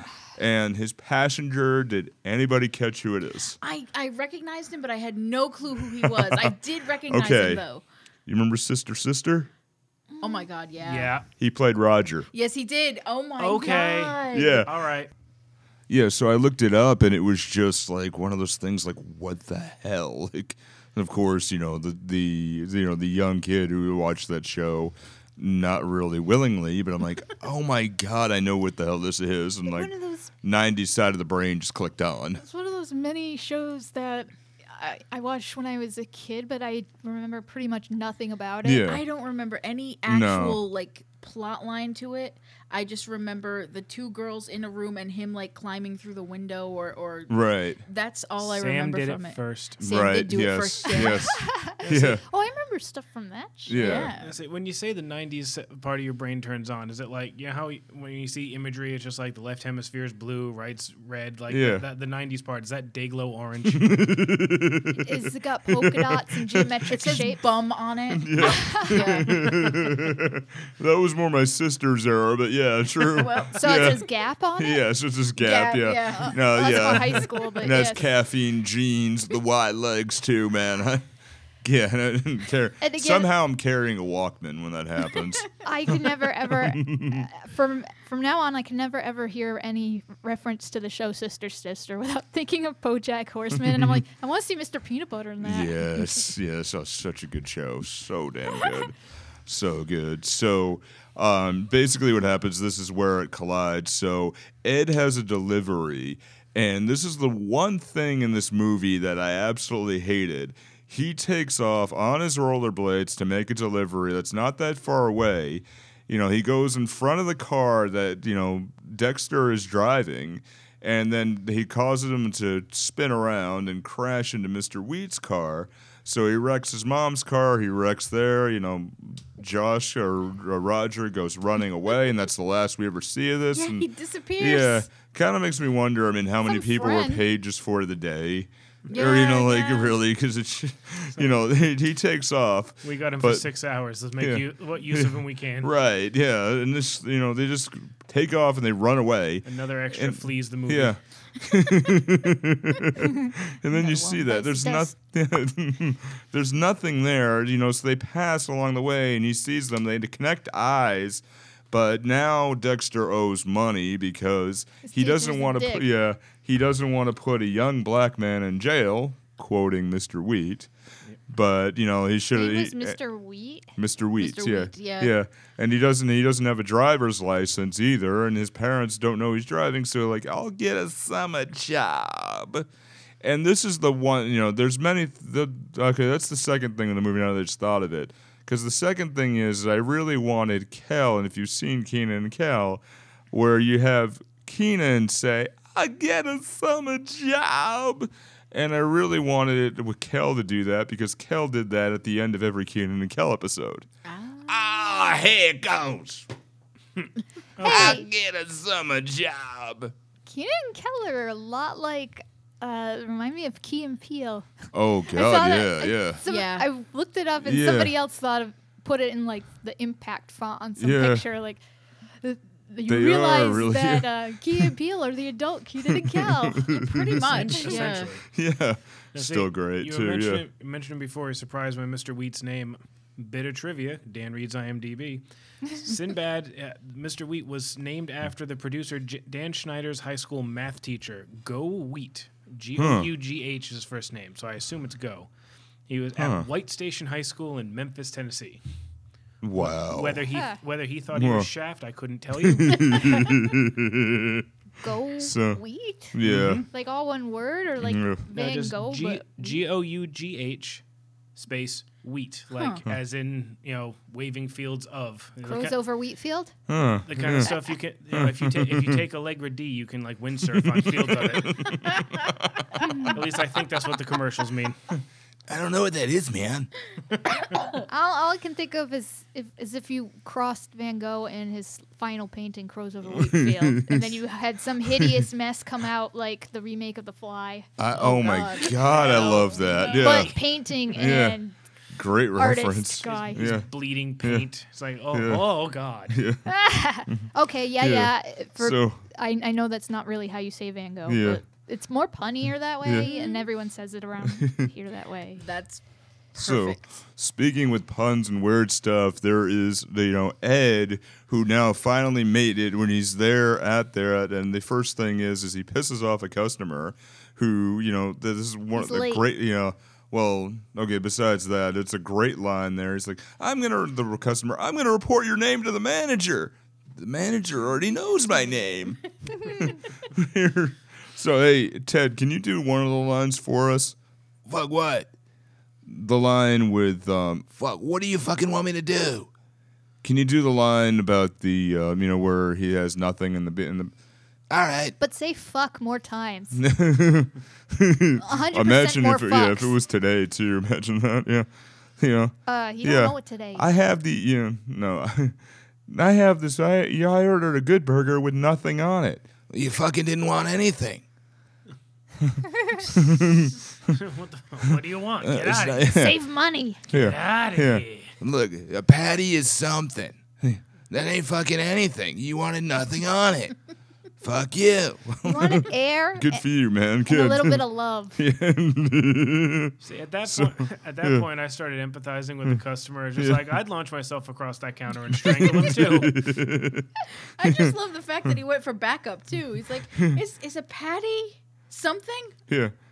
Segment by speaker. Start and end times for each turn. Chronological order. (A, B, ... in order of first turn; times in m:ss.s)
0:00.4-0:03.6 A
0:03.6-0:07.8 B
0:06.0-0:06.5 A
0:07.1-0:07.6 A
0:08.3-0:09.5 A
0:10.1-0:10.5 C
0:10.2-0:11.2 B
0:10.8-0:11.3 D
0:11.4-0:12.3 A
0:12.3-0:14.7 B
0:13.4-0:15.1 D
0:14.3-0:14.7 A
0:15.9-0:32.4 A
0:29.7-0:30.3 C
0:32.4-0:38.9 C
0:38.6-0:39.0 A
0:38.8-0:51.4 B
0:40.1-0:40.6 A
0:47.3-0:47.8 A
0:48.4-0:49.8 D
0:49.8-0:52.2 A
0:50.9-0:54.1 C
0:51.8-0:52.2 D
0:53.7-0:54.1 A
0:53.8-0:54.3 B
0:54.2-1:03.9 D
1:01.5-1:01.8 A
1:03.7-1:05.2 A
1:05.0-1:07.4 C
1:05.7-1:06.7 A
1:06.9-1:09.7 B
1:08.1-1:14.0 A
1:08.4-1:09.3 C
1:13.0-1:14.0 B
1:13.6-1:14.8 C
1:14.6-1:21.0 A
1:15.4-1:16.9 B
1:16.1-1:18.1 C
1:21.6-1:27.3 A
1:22.8-1:23.3 C
1:25.6-1:36.3 C
1:33.7-1:34.0 A
1:35.4-2:13.9 A
2:13.5-2:14.9 B
2:14.4-2:23.5 A
2:16.5-2:17.0 B
2:16.5-2:17.2 C
2:18.9-2:20.0 B
2:22.8-2:25.7 D
2:24.2-2:50.7 A
2:29.4-2:31.0 D
2:33.0-2:34.9 C
2:44.8-2:45.9 C
2:51.3-2:53.0 A
2:52.3-2:53.8 C
2:53.8-3:02.7 A
2:54.2-2:55.1 B
3:03.2-3:23.9 A
3:24.0-3:24.8 B
3:24.5-3:26.2 E
3:27.6-3:27.9 D
3:27.6-3:28.1 C
3:27.7-3:29.9 E
3:30.3-3:34.5 C
3:34.7-3:36.2 A
3:35.1-3:41.6 C
3:36.2-3:36.7 B
3:37.4-3:37.9 A
3:40.8-3:41.2 A
3:42.2-3:46.7 C
3:42.9-3:44.7 A
3:45.9-3:47.5 A
3:46.7-3:48.1 B
3:47.2-3:48.3 D
3:47.5-3:48.0 C
3:48.3-3:50.4 A
3:49.1-4:05.3 D
4:02.8-4:03.1 A
4:05.9-4:08.6 D
4:06.2-4:06.5 A
4:09.4-4:10.2 A
4:09.6-4:13.1 D
4:10.3-4:10.6 C
4:11.1-4:11.5 A
4:12.4-4:14.5 A
4:14.8-4:16.2 C
4:15.2-4:15.6 A
4:16.1-4:16.6 A
4:16.2-4:16.6 D
4:16.7-4:19.6 C
4:17.8-4:18.2 A
4:18.3-4:20.8 D
4:21.4-4:25.8 D
4:22.6-4:22.8 B
4:25.4-4:26.5 C
4:26.7-4:27.5 A
4:27.1-4:31.6 D
4:28.1-4:29.0 A
4:30.6-4:32.8 A
4:32.8-4:33.2 C
4:33.1-4:34.8 D
4:35.5-4:36.7 E
4:37.9-4:47.7 C
4:43.1-4:44.1 A
4:47.8-4:51.4 A
4:47.9-4:50.3 B
4:48.9-4:50.0 D
4:49.9-4:51.6 C
4:51.9-4:53.7 A
4:52.3-4:53.5 C
4:53.0-4:56.2 D
4:54.2-4:54.5 A
4:55.1-4:55.5 A
4:56.1-4:56.4 A
4:56.4-5:05.4 C
4:57.8-4:59.0 A
5:01.1-5:01.4 A
5:02.8-5:03.1 A
5:03.1-5:03.4 B
5:04.3-5:04.7 A
5:05.4-5:05.8 B
5:06.4-5:06.8 B
5:06.4-5:34.0 A
5:18.7-5:19.2 C
5:34.5-5:35.1 E
5:35.9-5:37.6 A
5:37.6-5:39.3 E
5:40.0-5:43.9 A
5:44.5-5:45.0 E
5:45.0-5:46.6 C
5:46.5-5:51.5 A
5:48.2-5:49.8 C
5:52.0-5:55.4 A
5:52.5-5:53.7 C
5:55.9-5:59.3 A
5:59.5-6:01.0 E
6:02.2-6:04.0 A
6:02.6-6:02.9 C
6:03.9-6:05.9 D
6:05.8-6:06.1 A
6:05.8-6:06.8 C
6:06.9-6:07.8 A
6:06.9-6:08.1 D
6:08.2-6:13.5 E
6:14.2-6:15.1 E
6:15.2-6:15.6 A
6:15.2-6:16.5 C
6:16.2-6:17.6 A
6:17.0-6:18.2 C
6:18.2-6:19.8 A
6:19.8-6:26.2 D
6:20.3-6:21.3 A
6:23.2-6:23.4 A
6:25.2-6:26.9 A
6:27.4-6:32.4 B
6:27.4-6:27.7 A
6:29.9-6:30.2 A